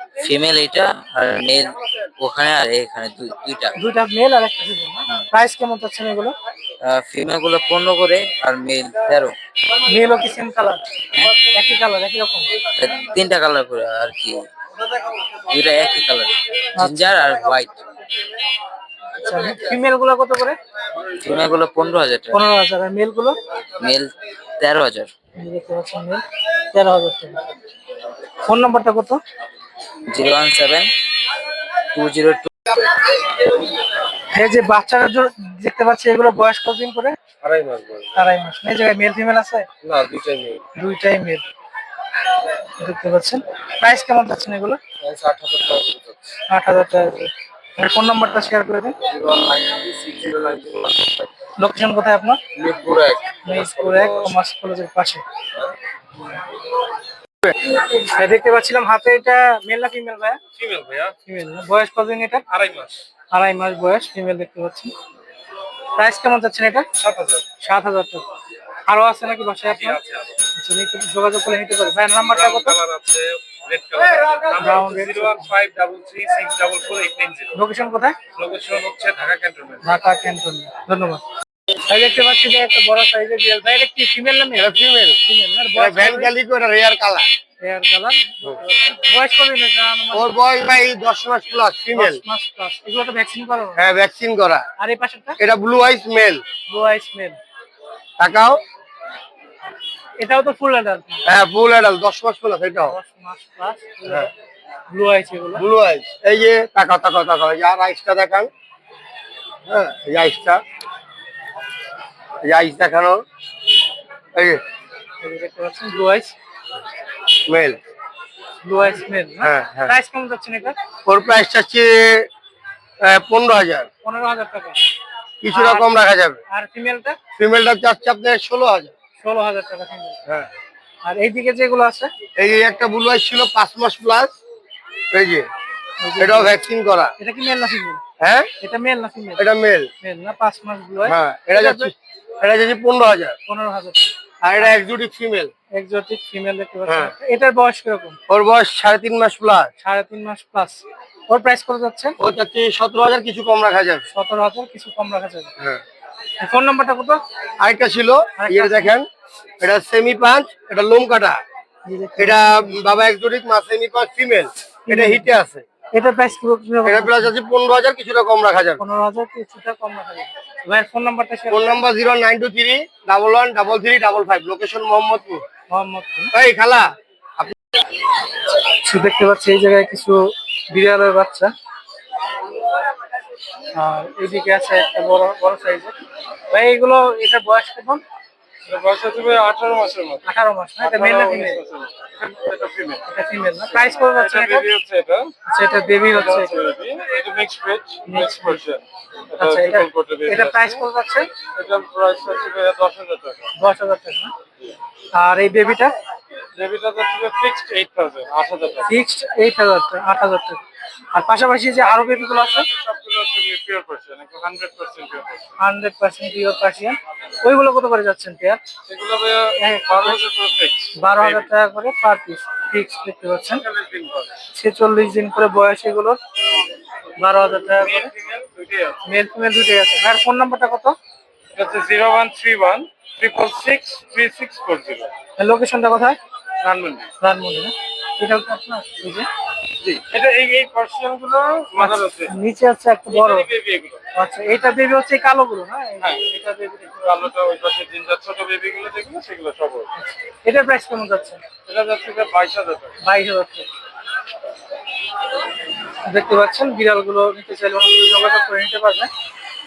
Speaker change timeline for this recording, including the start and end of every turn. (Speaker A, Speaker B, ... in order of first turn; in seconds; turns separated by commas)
Speaker A: 0.2-3.7, Speaker B: 3.8-6.3, Speaker A: 6.8-9.3, Speaker B: 9.8-10.8, Speaker B: 11.3-12.5, Speaker A: 12.8-14.4, Speaker A: 15.5-17.8, Speaker B: 16.8-17.1, Speaker B: 19.2-20.6, Speaker A: 21.2-22.4, Speaker B: 22.3-23.4, Speaker A: 23.8-25.1, Speaker B: 25.4-27.4, Speaker B: 28.4-29.2, Speaker A: 30.1-30.9, Speaker A: 31.9-32.5, Speaker B: 34.3-37.1, Speaker C: 37.4-38.0, Speaker B: 38.1-39.7, Speaker C: 39.8-40.5, Speaker B: 40.8-41.4, Speaker B: 42.8-44.8, Speaker C: 45.0-46.1, Speaker B: 46.5-49.0, Speaker A: 49.3-50.7, Speaker B: 51.6-52.4, Speaker A: 52.6-53.1, Speaker B: 53.4-55.2, Speaker B: 57.8-60.4, Speaker C: 60.5-61.1, Speaker B: 61.2-62.4, Speaker C: 62.5-63.0, Speaker B: 63.3-64.9, Speaker B: 66.0-66.8, Speaker C: 67.0-67.4, Speaker B: 67.6-68.2, Speaker B: 68.9-70.0, Speaker C: 69.7-70.3, Speaker B: 70.5-72.8, Speaker C: 72.3-77.6, Speaker B: 74.6-75.5, Speaker B: 77.5-78.2, Speaker C: 78.3-79.8, Speaker B: 79.8-81.2, Speaker B: 81.9-86.3, Speaker D: 84.6-85.2, Speaker D: 85.7-87.3, Speaker B: 87.6-90.3, Speaker D: 90.1-92.2, Speaker B: 91.9-93.8, Speaker D: 93.8-94.6, Speaker B: 94.8-95.4, Speaker D: 95.4-96.4, Speaker B: 96.7-97.4, Speaker D: 98.2-98.6, Speaker B: 100.2-101.2, Speaker D: 101.2-103.0, Speaker B: 102.8-104.3, Speaker D: 104.0-104.3, Speaker B: 104.9-105.6, Speaker D: 105.5-108.5, Speaker D: 109.7-110.6, Speaker D: 112.4-113.2, Speaker D: 114.3-114.6, Speaker B: 115.2-116.3, Speaker D: 117.5-117.8, Speaker B: 118.6-120.8, Speaker D: 119.4-119.9, Speaker D: 121.0-122.3, Speaker D: 123.0-123.9, Speaker B: 124.0-124.8, Speaker D: 125.4-126.4, Speaker B: 125.5-125.9, Speaker B: 126.5-127.2, Speaker D: 127.3-128.9, Speaker B: 129.2-130.2, Speaker B: 131.0-132.1, Speaker D: 132.3-134.3, Speaker D: 135.1-135.5, Speaker B: 136.0-136.6, Speaker D: 136.2-137.1, Speaker B: 137.2-138.0, Speaker D: 138.2-138.5, Speaker B: 138.6-139.4, Speaker D: 139.4-139.9, Speaker B: 140.0-141.9, Speaker D: 141.0-143.3, Speaker B: 143.4-144.1, Speaker D: 144.4-145.5, Speaker B: 145.7-148.2, Speaker D: 146.9-147.1, Speaker D: 148.3-149.7, Speaker B: 149.8-152.2, Speaker D: 152.2-154.0, Speaker B: 154.1-155.5, Speaker B: 156.4-157.2, Speaker D: 157.6-159.1, Speaker B: 158.4-158.9, Speaker D: 159.6-161.4, Speaker B: 161.8-162.8, Speaker D: 162.2-165.6, Speaker B: 164.9-165.3, Speaker B: 165.9-167.3, Speaker D: 166.8-168.8, Speaker B: 168.8-171.8, Speaker D: 171.5-175.4, Speaker B: 175.7-176.3, Speaker D: 176.3-177.5, Speaker B: 178.6-181.5, Speaker B: 183.7-185.9, Speaker B: 186.5-188.0, Speaker C: 188.7-190.2, Speaker B: 190.2-191.6, Speaker C: 190.8-193.0, Speaker B: 193.1-194.7, Speaker C: 194.0-195.3, Speaker B: 195.5-196.5, Speaker C: 196.1-198.8, Speaker B: 198.0-198.6, Speaker C: 199.3-200.8, Speaker B: 199.4-201.3, Speaker C: 201.5-203.5, Speaker B: 203.6-204.3, Speaker B: 205.1-205.9, Speaker C: 206.6-208.9, Speaker B: 208.8-210.6, Speaker B: 211.1-212.7, Speaker C: 212.7-215.4, Speaker B: 215.6-218.6, Speaker C: 218.9-221.4, Speaker B: 219.6-220.2, Speaker B: 220.9-223.6, Speaker C: 223.7-224.3, Speaker B: 224.5-226.2, Speaker B: 227.2-228.1, Speaker C: 227.8-229.0, Speaker B: 229.1-230.9, Speaker C: 231.5-235.1, Speaker B: 235.4-236.2, Speaker C: 236.6-237.1, Speaker B: 237.2-239.3, Speaker C: 239.8-242.3, Speaker B: 241.8-243.5, Speaker C: 243.1-244.0, Speaker B: 244.1-246.7, Speaker C: 246.0-249.9, Speaker B: 249.9-251.4, Speaker C: 251.7-252.9, Speaker B: 253.0-253.7, Speaker B: 256.1-259.1